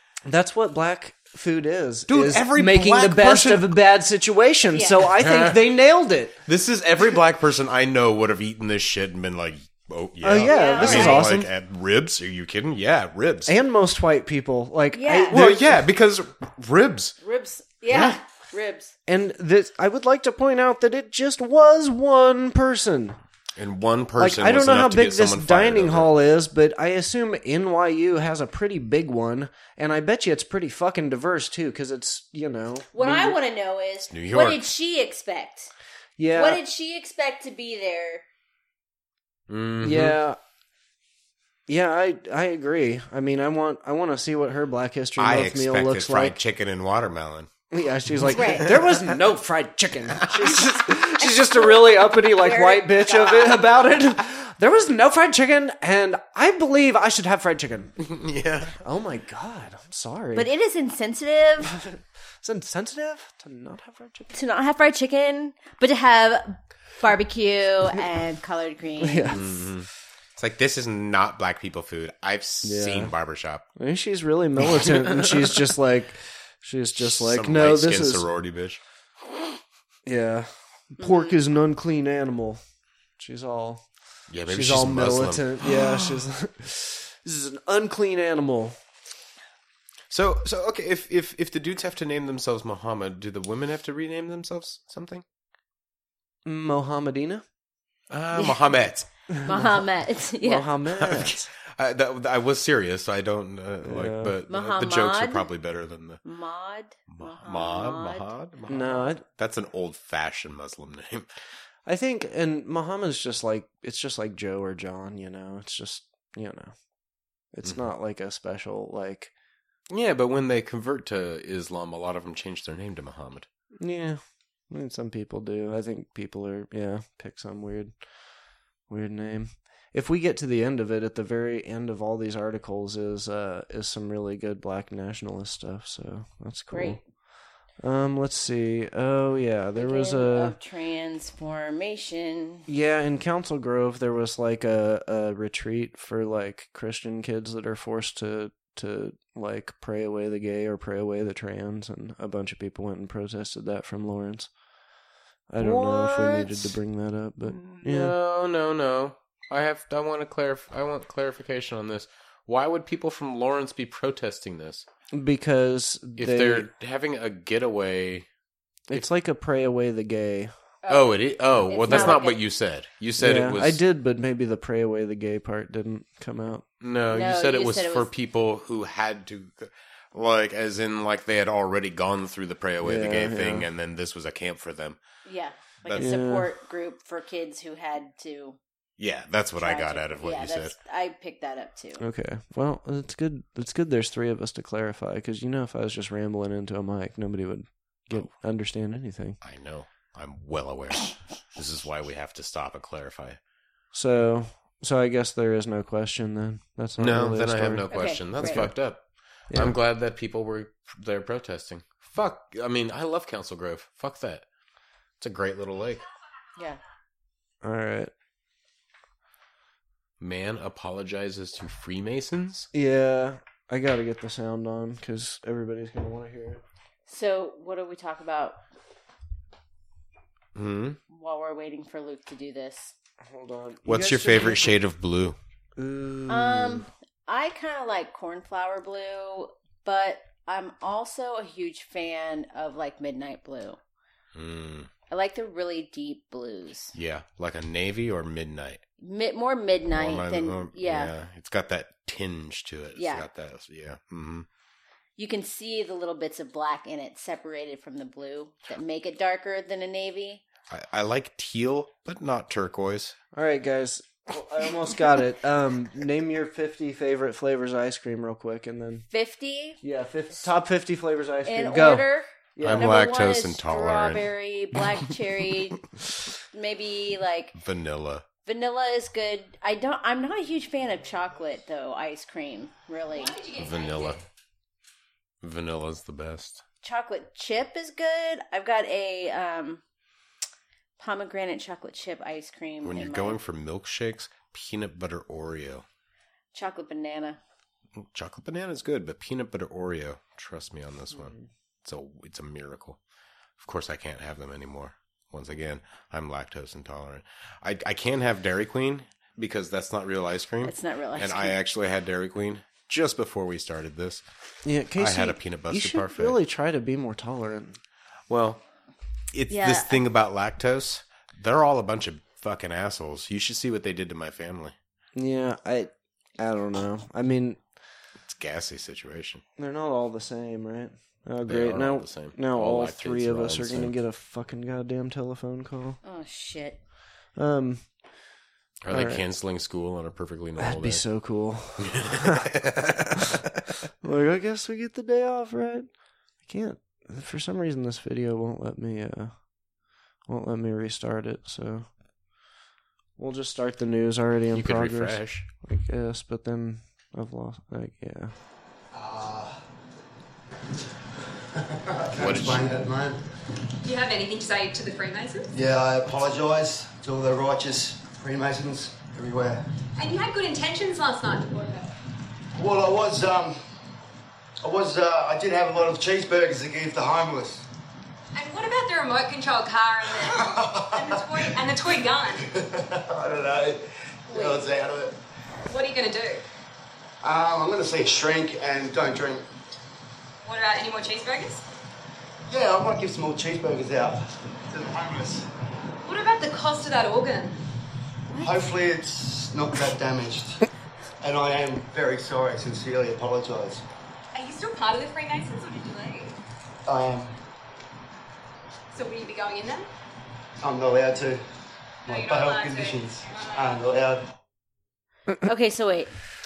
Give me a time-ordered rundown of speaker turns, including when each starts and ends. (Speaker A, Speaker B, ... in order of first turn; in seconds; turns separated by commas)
Speaker A: 0.3-6.4, Speaker B: 2.1-3.7, Speaker C: 4.7-5.0, Speaker B: 5.1-5.6, Speaker B: 6.5-13.5, Speaker A: 10.2-11.5, Speaker C: 10.5-11.3, Speaker A: 13.5-15.9, Speaker C: 14.9-15.4, Speaker B: 15.3-17.2, Speaker C: 17.2-18.9, Speaker B: 17.9-18.2, Speaker A: 19.1-23.2, Speaker B: 23.6-26.1, Speaker A: 24.2-33.4, Speaker C: 32.9-35.7, Speaker B: 34.1-34.6, Speaker A: 36.2-36.6, Speaker C: 36.3-38.2, Speaker B: 39.5-40.2, Speaker A: 39.8-40.4, Speaker A: 41.7-46.4, Speaker B: 45.2-47.5, Speaker A: 47.7-58.0, Speaker B: 48.3-49.1, Speaker C: 48.3-48.7, Speaker B: 50.2-50.5, Speaker C: 51.2-53.7, Speaker B: 58.0-58.8, Speaker A: 58.8-60.5, Speaker C: 60.4-61.8, Speaker A: 61.6-64.3, Speaker C: 64.3-69.4, Speaker A: 69.0-69.4, Speaker B: 69.3-73.7, Speaker A: 72.6-73.1, Speaker A: 73.8-78.3, Speaker B: 74.7-75.6, Speaker B: 77.0-78.8, Speaker A: 80.1-82.6, Speaker C: 81.0-81.3, Speaker A: 83.2-83.8, Speaker B: 84.3-86.2, Speaker A: 84.5-88.8, Speaker B: 90.1-95.2, Speaker A: 96.5-97.4, Speaker B: 98.1-99.1, Speaker A: 99.3-99.8, Speaker C: 99.5-100.7, Speaker A: 100.4-101.5, Speaker B: 100.9-106.2, Speaker A: 103.8-104.4, Speaker C: 104.5-105.5, Speaker C: 106.2-108.3, Speaker B: 107.1-111.3, Speaker A: 108.7-109.2, Speaker A: 111.9-116.7, Speaker A: 117.5-119.3, Speaker B: 119.9-123.5, Speaker A: 123.8-127.9, Speaker A: 128.9-137.0, Speaker C: 136.7-137.0, Speaker A: 137.8-140.6, Speaker C: 139.8-142.7, Speaker A: 142.7-154.5, Speaker A: 155.5-158.2, Speaker B: 155.6-156.7, Speaker B: 157.5-164.9, Speaker A: 165.1-166.7, Speaker B: 166.2-168.3, Speaker A: 168.9-170.5, Speaker C: 170.8-171.1, Speaker B: 170.9-173.8, Speaker C: 171.7-172.4, Speaker A: 171.9-172.2, Speaker A: 173.2-176.7, Speaker B: 176.8-185.0, Speaker C: 177.1-178.1, Speaker A: 182.8-183.7, Speaker C: 185.2-188.6, Speaker A: 186.0-186.5, Speaker B: 189.0-190.8, Speaker C: 189.6-192.0, Speaker A: 192.0-199.4, Speaker B: 199.4-203.4, Speaker A: 203.9-207.9, Speaker B: 207.0-214.4, Speaker C: 207.9-208.7, Speaker A: 208.4-208.7, Speaker A: 209.5-209.8, Speaker B: 215.2-216.1, Speaker A: 217.6-218.1, Speaker B: 220.2-222.7, Speaker A: 222.7-226.6, Speaker C: 227.1-228.6, Speaker B: 230.6-231.0, Speaker C: 231.1-232.9, Speaker A: 233.2-234.8, Speaker B: 233.9-235.4, Speaker A: 235.8-236.9, Speaker C: 236.3-243.8, Speaker B: 244.3-244.9, Speaker C: 245.1-246.9, Speaker B: 246.9-248.8, Speaker C: 249.0-251.1, Speaker B: 249.9-254.5, Speaker C: 253.0-253.3, Speaker C: 255.2-260.4, Speaker B: 260.7-263.2, Speaker A: 263.3-269.1, Speaker C: 269.1-269.8, Speaker A: 269.8-273.0, Speaker C: 271.4-275.8, Speaker B: 272.6-274.3, Speaker C: 276.5-277.6, Speaker B: 277.6-278.2, Speaker C: 278.5-283.4, Speaker D: 283.1-284.2, Speaker B: 283.6-284.2, Speaker B: 285.4-286.6, Speaker C: 286.8-289.8, Speaker C: 291.0-293.4, Speaker B: 292.8-295.9, Speaker C: 296.5-297.4, Speaker B: 298.0-303.0, Speaker B: 303.6-314.2, Speaker C: 310.6-311.6, Speaker A: 314.6-317.8, Speaker B: 315.0-316.4, Speaker B: 318.3-318.6, Speaker B: 319.3-324.8, Speaker C: 319.5-320.0, Speaker A: 325.1-327.6, Speaker B: 328.3-329.4, Speaker A: 329.6-336.0, Speaker B: 331.5-333.9, Speaker C: 336.1-336.8, Speaker A: 337.4-337.8, Speaker B: 338.8-341.1, Speaker A: 338.9-339.2, Speaker A: 340.6-343.5, Speaker B: 341.8-343.4, Speaker A: 344.0-345.9, Speaker A: 346.4-349.3, Speaker A: 350.3-351.9, Speaker A: 353.2-358.3, Speaker B: 354.5-355.5, Speaker E: 358.9-359.6, Speaker E: 361.4-363.2, Speaker B: 362.2-362.7, Speaker D: 363.8-365.5, Speaker E: 365.5-369.6, Speaker D: 370.0-371.9, Speaker E: 372.6-373.6, Speaker E: 374.6-377.7, Speaker D: 378.3-382.5, Speaker E: 380.2-381.7, Speaker E: 382.5-385.2, Speaker D: 384.3-384.6, Speaker D: 385.7-386.4, Speaker E: 387.2-389.4, Speaker D: 390.4-391.6, Speaker E: 392.5-395.5, Speaker D: 396.0-397.6, Speaker E: 398.4-400.6, Speaker E: 401.2-403.8, Speaker D: 404.3-406.3, Speaker E: 406.9-407.3, Speaker D: 408.9-409.9, Speaker E: 410.6-411.4, Speaker E: 412.1-414.2, Speaker D: 412.1-413.8, Speaker C: 415.4-416.1